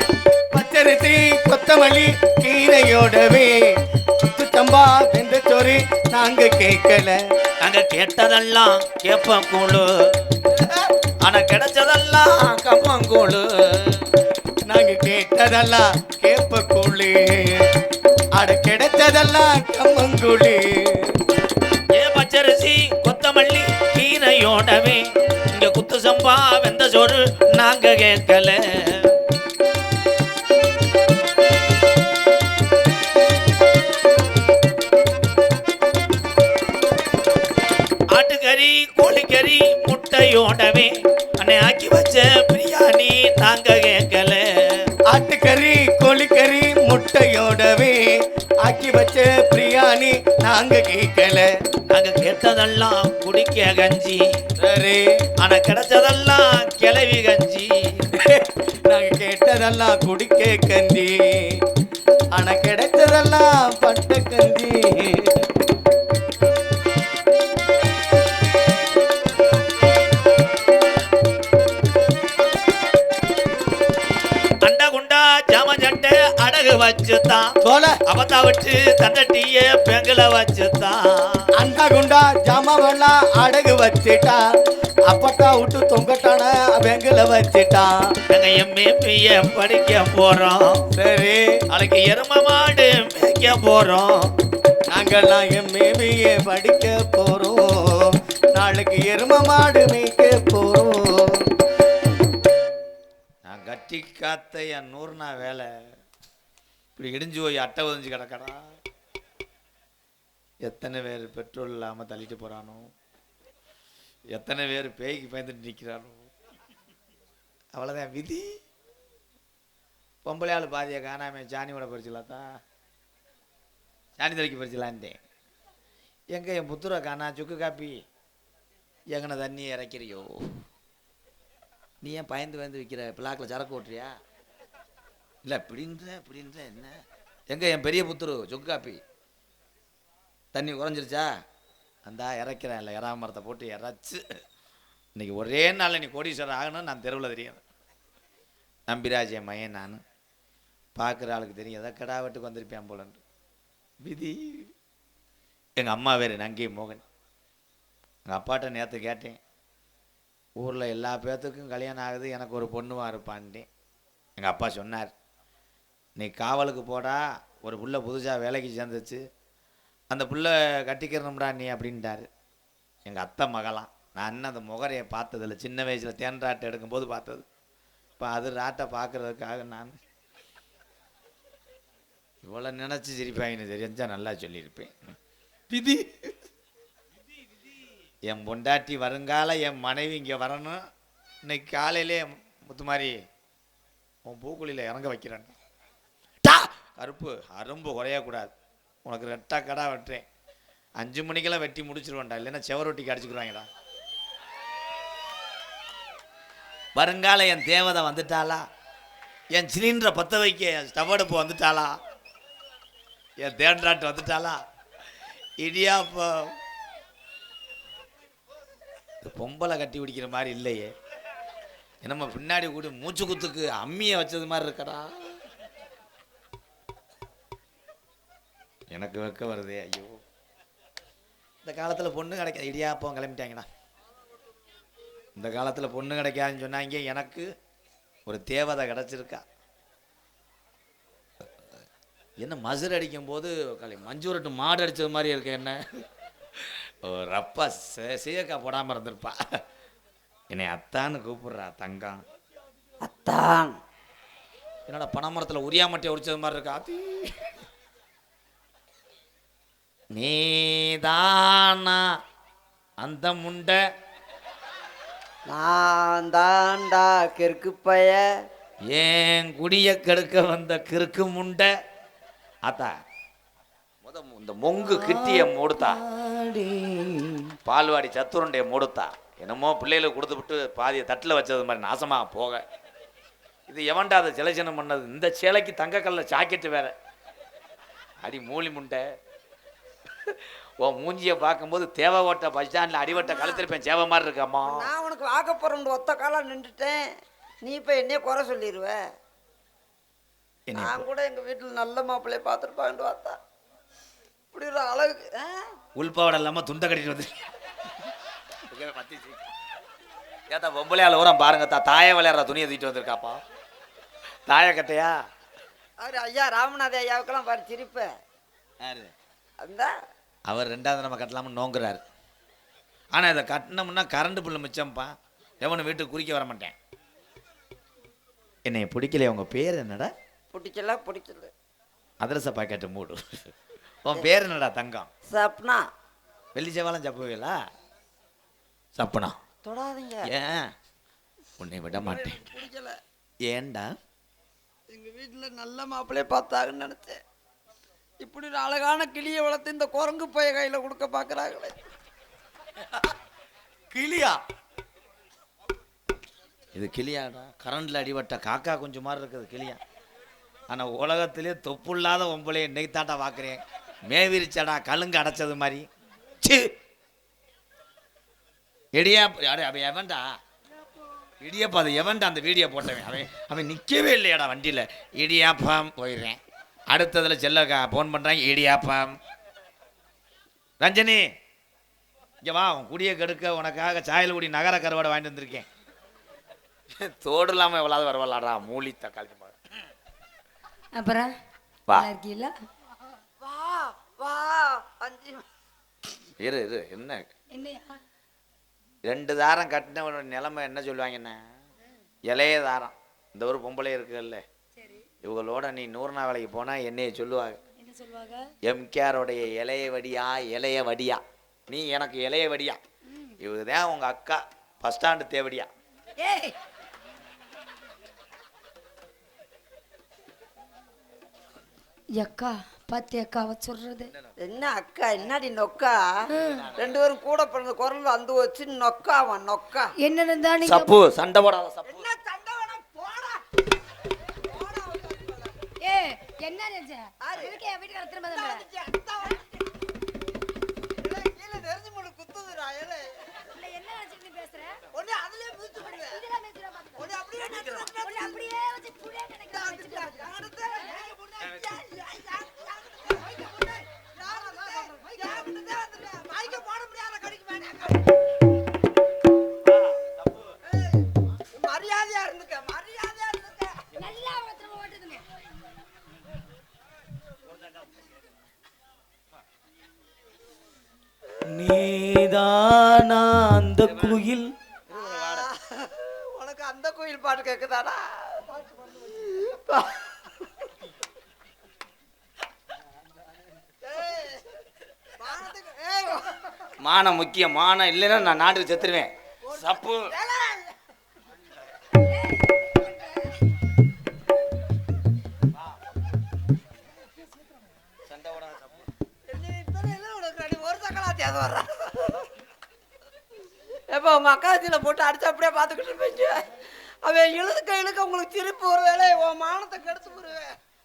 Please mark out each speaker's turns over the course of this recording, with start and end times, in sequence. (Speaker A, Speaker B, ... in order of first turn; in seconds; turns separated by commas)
Speaker A: 0.5-3.8, Speaker A: 4.3-7.2, Speaker B: 7.6-9.9, Speaker A: 10.5-10.9, Speaker B: 11.2-14.1, Speaker A: 14.7-17.7, Speaker A: 18.4-21.2, Speaker B: 21.9-29.1, Speaker B: 38.1-44.8, Speaker A: 45.1-48.1, Speaker A: 48.6-51.5, Speaker B: 51.9-54.2, Speaker A: 54.6-55.2, Speaker B: 55.4-57.8, Speaker A: 58.1-61.6, Speaker A: 62.3-65.3, Speaker B: 74.6-77.5, Speaker A: 77.6-78.0, Speaker B: 78.0-81.4, Speaker A: 81.6-84.4, Speaker A: 85.1-87.9, Speaker B: 88.3-90.8, Speaker A: 90.9-91.6, Speaker B: 91.7-94.3, Speaker A: 94.9-101.4, Speaker B: 103.4-105.7, Speaker B: 107.0-108.6, Speaker B: 110.6-112.9, Speaker B: 114.3-116.3, Speaker B: 117.7-118.5, Speaker B: 120.2-122.5, Speaker B: 124.2-125.2, Speaker B: 126.3-128.0, Speaker B: 129.1-130.3, Speaker B: 132.0-134.1, Speaker B: 135.4-137.0, Speaker B: 137.5-139.0, Speaker B: 140.5-141.3, Speaker B: 142.1-144.2, Speaker B: 145.2-147.6, Speaker B: 148.9-150.0, Speaker B: 150.9-153.2, Speaker B: 154.0-154.7, Speaker B: 155.8-157.0, Speaker B: 158.3-159.4, Speaker B: 160.6-163.7, Speaker B: 164.4-165.1, Speaker B: 166.2-169.2, Speaker B: 170.1-172.3, Speaker B: 173.1-177.4, Speaker B: 178.2-179.9, Speaker B: 182.4-184.9, Speaker A: 185.7-186.3, Speaker B: 188.3-190.8, Speaker B: 191.4-193.2, Speaker B: 194.2-195.5, Speaker B: 196.4-198.5, Speaker B: 199.1-200.2, Speaker B: 201.0-203.7, Speaker B: 206.9-208.6, Speaker B: 209.5-211.9, Speaker B: 213.4-214.6, Speaker B: 215.6-216.5, Speaker B: 219.2-220.9, Speaker B: 222.0-225.4, Speaker B: 228.9-230.2, Speaker B: 231.6-233.7, Speaker B: 235.4-237.5, Speaker B: 238.2-239.4, Speaker B: 242.4-245.8, Speaker B: 246.6-249.3, Speaker B: 250.5-252.2, Speaker C: 253.0-253.8, Speaker B: 254.9-257.3, Speaker B: 260.1-262.0, Speaker B: 263.0-263.8, Speaker C: 265.5-268.2, Speaker B: 268.9-271.7, Speaker B: 272.6-272.9, Speaker B: 274.0-276.0, Speaker C: 274.8-277.4, Speaker B: 277.6-282.6, Speaker B: 283.7-286.9, Speaker B: 288.2-289.0, Speaker B: 290.3-294.9, Speaker C: 293.1-293.6, Speaker C: 294.6-297.0, Speaker C: 297.6-299.0, Speaker B: 300.7-301.0, Speaker C: 300.7-303.4, Speaker C: 304.5-305.7, Speaker B: 305.9-307.3, Speaker B: 308.7-309.5, Speaker B: 310.5-313.4, Speaker B: 314.5-315.1, Speaker C: 316.0-318.1, Speaker B: 318.8-319.1, Speaker C: 319.6-319.9, Speaker B: 320.5-322.0, Speaker B: 323.1-326.7, Speaker B: 328.6-330.1, Speaker C: 330.5-331.5, Speaker B: 332.2-333.5, Speaker B: 334.0-335.1, Speaker C: 335.3-335.8, Speaker B: 336.5-337.6, Speaker B: 338.9-339.4, Speaker C: 339.6-340.3, Speaker B: 340.2-340.7, Speaker B: 341.6-342.4, Speaker C: 341.9-342.9, Speaker B: 343.5-343.9, Speaker C: 344.9-347.2, Speaker C: 348.2-351.7, Speaker A: 353.9-354.4, Speaker B: 356.7-359.8, Speaker B: 360.7-365.9, Speaker B: 366.4-366.7, Speaker B: 368.9-370.2, Speaker B: 371.4-379.1, Speaker B: 380.8-381.3, Speaker B: 382.4-385.6, Speaker B: 387.0-389.6, Speaker D: 390.9-391.3, Speaker D: 391.9-392.5, Speaker C: 393.4-395.4, Speaker B: 396.4-397.2, Speaker D: 397.5-398.0, Speaker B: 399.0-401.4, Speaker B: 402.3-404.4, Speaker D: 404.8-405.0, Speaker B: 405.2-407.6, Speaker D: 407.8-408.4, Speaker B: 408.7-412.8, Speaker B: 413.4-415.7, Speaker D: 416.2-416.5, Speaker D: 422.1-424.1, Speaker C: 424.4-426.0, Speaker D: 426.3-426.7, Speaker B: 426.5-426.9, Speaker C: 426.7-429.9, Speaker D: 430.0-430.9, Speaker B: 430.6-432.1, Speaker C: 431.8-433.4, Speaker C: 434.4-435.5, Speaker D: 435.8-438.6, Speaker C: 437.2-437.6, Speaker C: 438.3-439.4, Speaker C: 441.0-443.4, Speaker D: 443.5-444.8, Speaker C: 444.9-446.2, Speaker D: 445.8-447.1, Speaker C: 446.9-448.5, Speaker D: 447.9-450.3, Speaker C: 449.5-458.1, Speaker B: 459.6-460.6, Speaker C: 460.7-463.9, Speaker D: 464.0-465.2, Speaker B: 471.5-475.4, Speaker C: 474.9-480.3, Speaker C: 483.8-484.4, Speaker C: 485.2-486.6, Speaker B: 486.8-490.1, Speaker C: 489.4-490.7, Speaker D: 492.1-493.2, Speaker B: 498.1-498.8, Speaker C: 499.2-502.3, Speaker C: 503.9-510.5